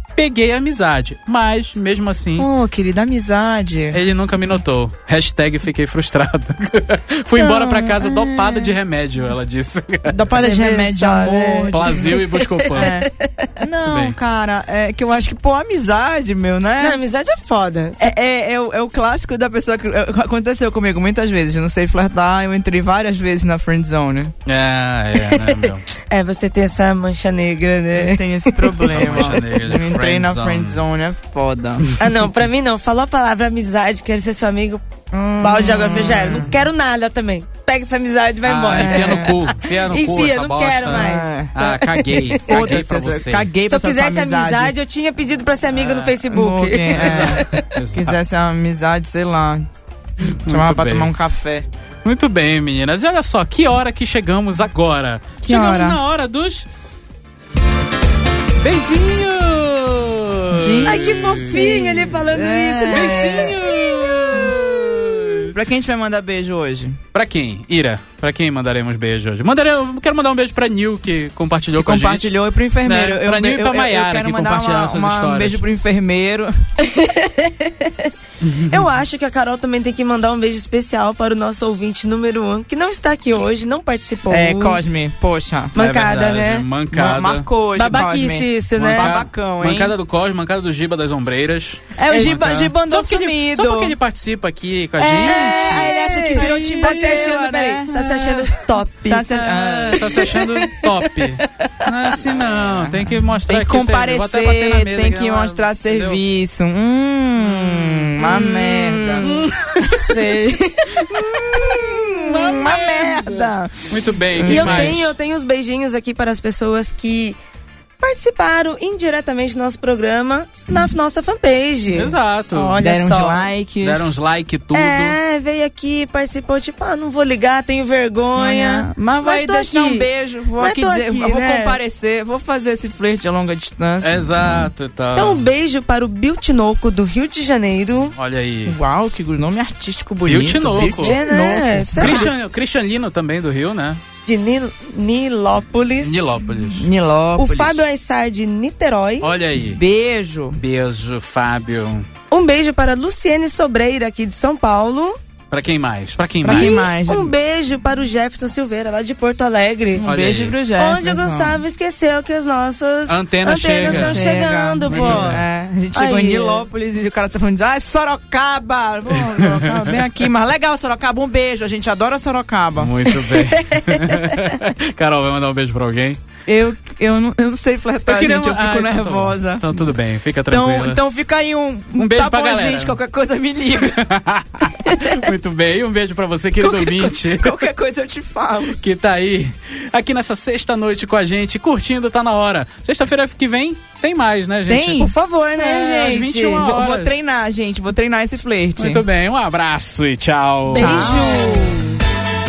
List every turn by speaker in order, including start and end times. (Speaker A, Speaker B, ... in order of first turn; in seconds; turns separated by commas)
Speaker A: 0.1-2.5, Speaker B: 2.4-4.0, Speaker A: 3.9-10.2, Speaker B: 7.3-8.8, Speaker B: 10.1-13.1, Speaker C: 10.4-13.5, Speaker A: 11.7-13.0, Speaker B: 13.6-17.0, Speaker A: 13.9-14.2, Speaker C: 16.8-18.1, Speaker B: 18.0-24.3, Speaker A: 24.5-25.9, Speaker C: 25.3-25.6, Speaker C: 26.1-29.1, Speaker B: 27.9-31.9, Speaker A: 28.8-30.8, Speaker C: 32.0-34.8, Speaker B: 35.1-36.6, Speaker C: 35.4-42.8, Speaker A: 38.4-43.5, Speaker B: 38.7-39.3, Speaker B: 40.9-41.5, Speaker B: 42.5-44.7, Speaker C: 43.7-47.4, Speaker A: 45.7-46.1, Speaker B: 46.2-49.7, Speaker A: 46.9-48.2, Speaker A: 50.2-51.1, Speaker B: 50.5-51.7, Speaker A: 52.0-56.7, Speaker B: 55.4-56.0, Speaker A: 58.6-62.3, Speaker B: 60.5-63.6, Speaker C: 60.9-65.2, Speaker A: 62.9-65.5, Speaker B: 65.5-67.0, Speaker A: 67.1-75.6, Speaker B: 71.8-76.5, Speaker C: 76.8-84.8, Speaker A: 78.4-78.8, Speaker B: 84.3-85.8, Speaker C: 85.8-86.7, Speaker A: 85.8-87.5, Speaker B: 86.9-89.9, Speaker C: 87.8-89.1, Speaker A: 88.8-97.3, Speaker B: 92.0-94.0, Speaker C: 92.1-92.4, Speaker B: 95.0-97.9, Speaker C: 95.2-99.4, Speaker A: 97.9-98.5, Speaker B: 99.1-100.4, Speaker A: 99.3-106.2, Speaker C: 100.1-101.9, Speaker B: 102.3-109.4, Speaker A: 107.5-108.1, Speaker C: 108.2-111.8, Speaker A: 109.2-110.2, Speaker A: 111.1-115.2, Speaker B: 111.5-115.0, Speaker C: 114.5-117.4, Speaker C: 118.0-123.5, Speaker A: 121.9-122.8, Speaker B: 122.8-124.1, Speaker A: 123.8-125.2, Speaker C: 124.7-130.1, Speaker B: 128.4-134.7, Speaker C: 130.6-131.8, Speaker A: 134.0-135.5, Speaker C: 135.2-138.1, Speaker A: 138.2-138.8, Speaker B: 138.7-142.3, Speaker A: 140.3-141.2, Speaker C: 140.8-142.3, Speaker A: 141.9-144.0, Speaker C: 144.3-146.4, Speaker A: 146.0-146.9, Speaker B: 146.6-147.8, Speaker C: 147.4-149.3, Speaker A: 149.2-149.8, Speaker B: 149.6-150.6, Speaker A: 150.6-152.1, Speaker C: 152.3-155.2, Speaker A: 155.5-156.9, Speaker B: 156.4-157.3, Speaker C: 156.5-160.1, Speaker B: 160.0-161.6, Speaker A: 160.0-160.6, Speaker C: 160.8-165.4, Speaker A: 163.1-165.4, Speaker B: 163.8-173.0, Speaker C: 165.9-166.7, Speaker A: 169.2-170.0, Speaker A: 172.8-176.2, Speaker C: 173.5-174.5, Speaker B: 176.5-179.9, Speaker A: 178.1-181.0, Speaker B: 180.5-184.0, Speaker A: 182.0-183.0, Speaker A: 183.8-187.7, Speaker B: 186.6-188.8, Speaker A: 188.8-197.1, Speaker B: 194.7-195.1, Speaker C: 195.0-196.6, Speaker B: 196.4-199.1, Speaker A: 198.8-201.2, Speaker C: 200.7-202.0, Speaker B: 200.7-201.8